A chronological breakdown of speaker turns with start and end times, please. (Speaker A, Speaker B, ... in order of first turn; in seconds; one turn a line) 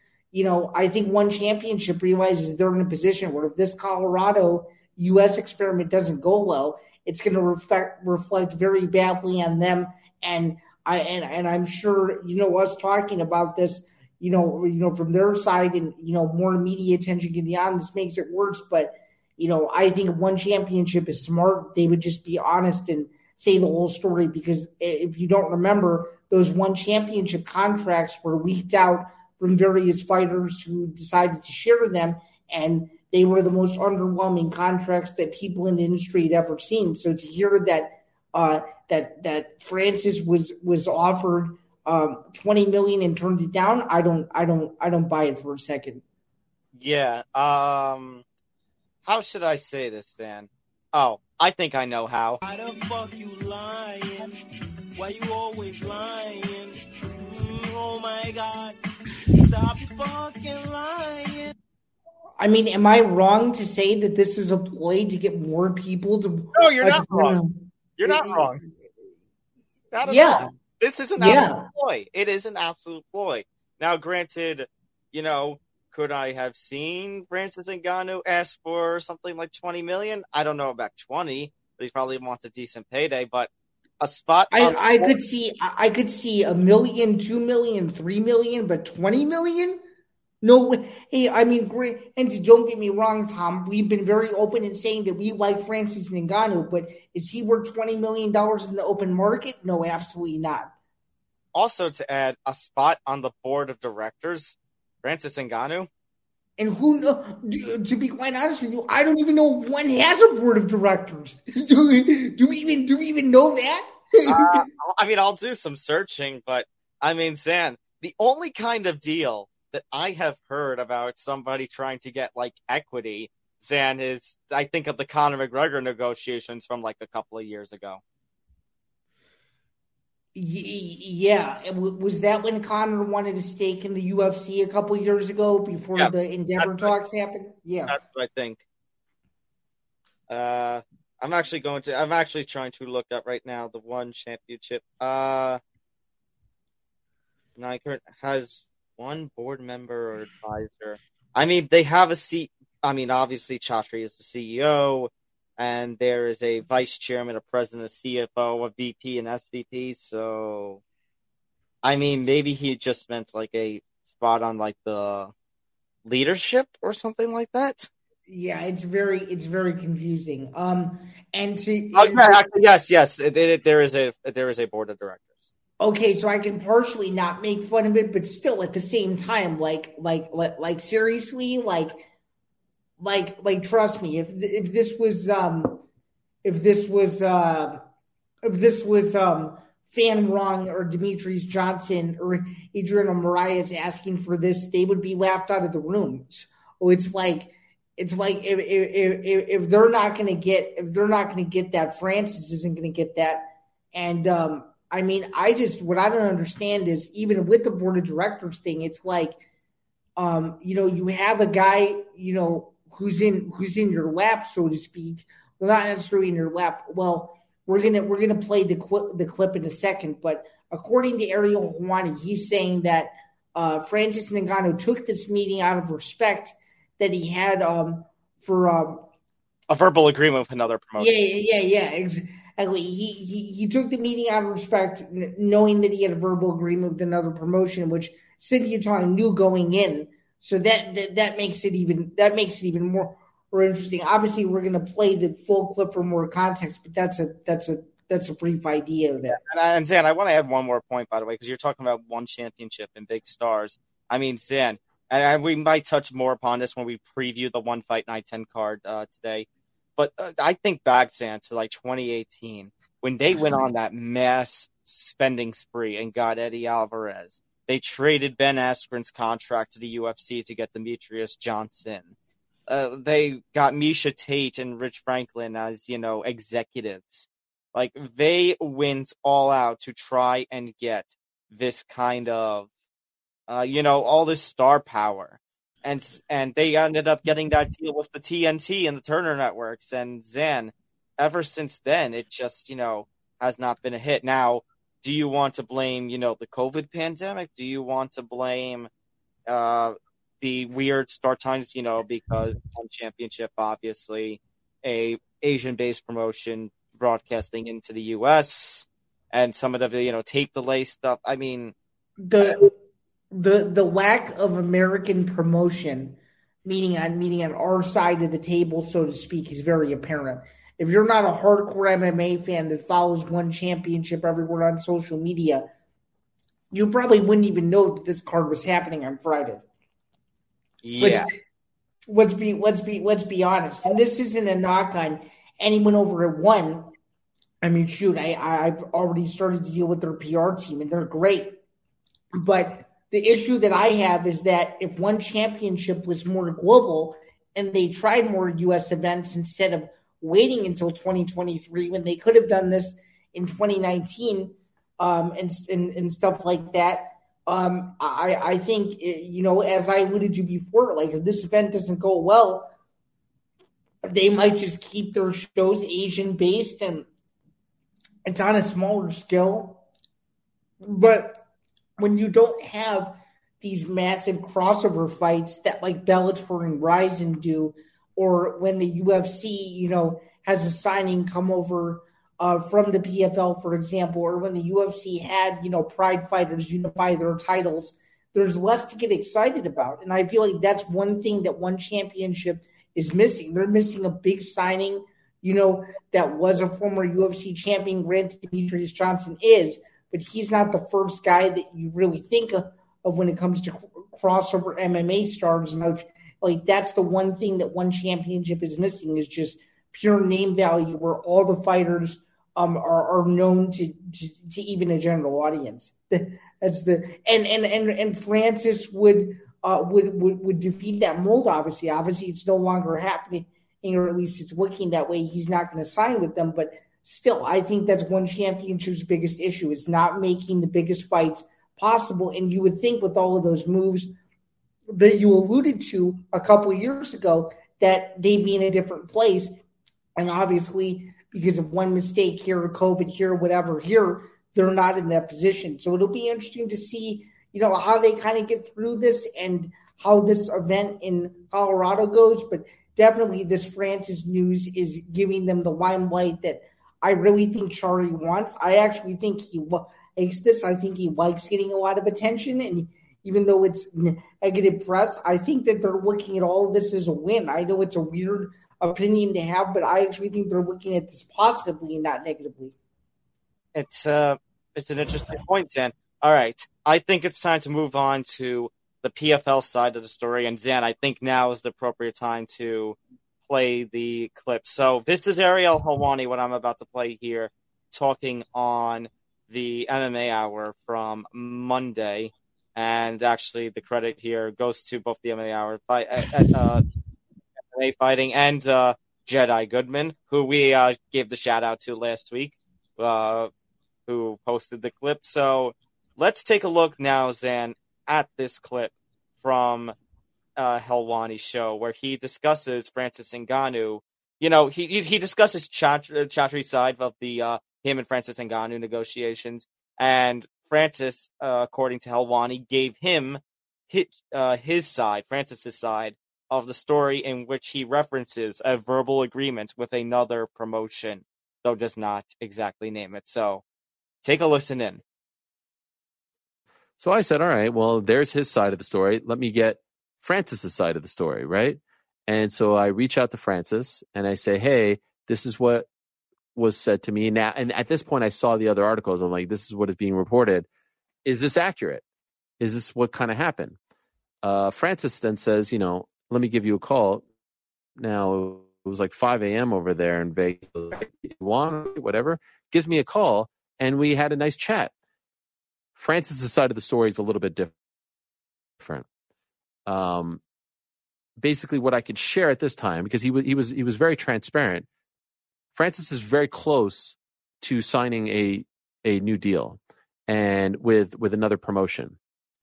Speaker A: 0.3-46.0
Speaker B: 46.7-48.2
Speaker B: 49.0-52.4
Speaker C: 52.4-54.4
Speaker C: 55.0-58.8
Speaker C: 59.3-61.5
Speaker A: 62.4-68.6
Speaker B: 66.5-67.4
Speaker B: 68.0-68.6
Speaker B: 69.9-85.1
Speaker A: 70.0-70.5
Speaker A: 71.2-71.7
Speaker A: 84.5-89.8
Speaker A: 90.4-100.7
Speaker B: 101.5-105.9
Speaker A: 106.6-114.6
Speaker B: 114.3-128.0
Speaker A: 130.3-138.0
Speaker B: 136.0-136.9
Speaker B: 137.9-138.6
Speaker B: 140.3-145.6
Speaker B: 147.6-160.8
Speaker B: 161.8-165.3
Speaker B: 166.1-167.9
Speaker A: 168.3-172.5
Speaker B: 171.9-175.5
Speaker A: 175.8-182.0
Speaker A: 183.0-185.8
Speaker A: 186.4-187.8
Speaker A: 188.4-209.4
Speaker A: 210.2-229.1
Speaker B: 229.7-231.1
Speaker A: 231.0-249.4
Speaker B: 249.3-272.1
Speaker B: 272.7-282.7
Speaker B: 283.5-298.9
Speaker B: 299.5-311.7
Speaker A: 312.2-312.7
Speaker A: 313.3-325.7
Speaker A: 326.7-329.6
Speaker B: 330.8-331.3
Speaker A: 331.0-331.3
Speaker A: 332.1-336.9
Speaker A: 337.6-341.6
Speaker A: 342.4-362.7
Speaker A: 364.1-367.1
Speaker A: 368.3-369.8
Speaker A: 370.8-371.4
Speaker A: 372.0-434.1
Speaker A: 434.9-439.5
Speaker A: 440.2-472.7
Speaker B: 473.8-496.8
Speaker B: 497.7-503.5
Speaker B: 504.1-509.9
Speaker B: 510.6-533.6
Speaker B: 534.2-535.0
Speaker D: 537.0-545.9
Speaker D: 546.5-550.7
Speaker D: 551.2-552.0
Speaker D: 552.6-553.8
Speaker D: 554.4-557.2
Speaker D: 558.0-564.9
Speaker D: 566.0-567.7
Speaker D: 568.8-569.1
Speaker D: 569.9-570.4
Speaker D: 571.4-574.9
Speaker D: 575.7-582.2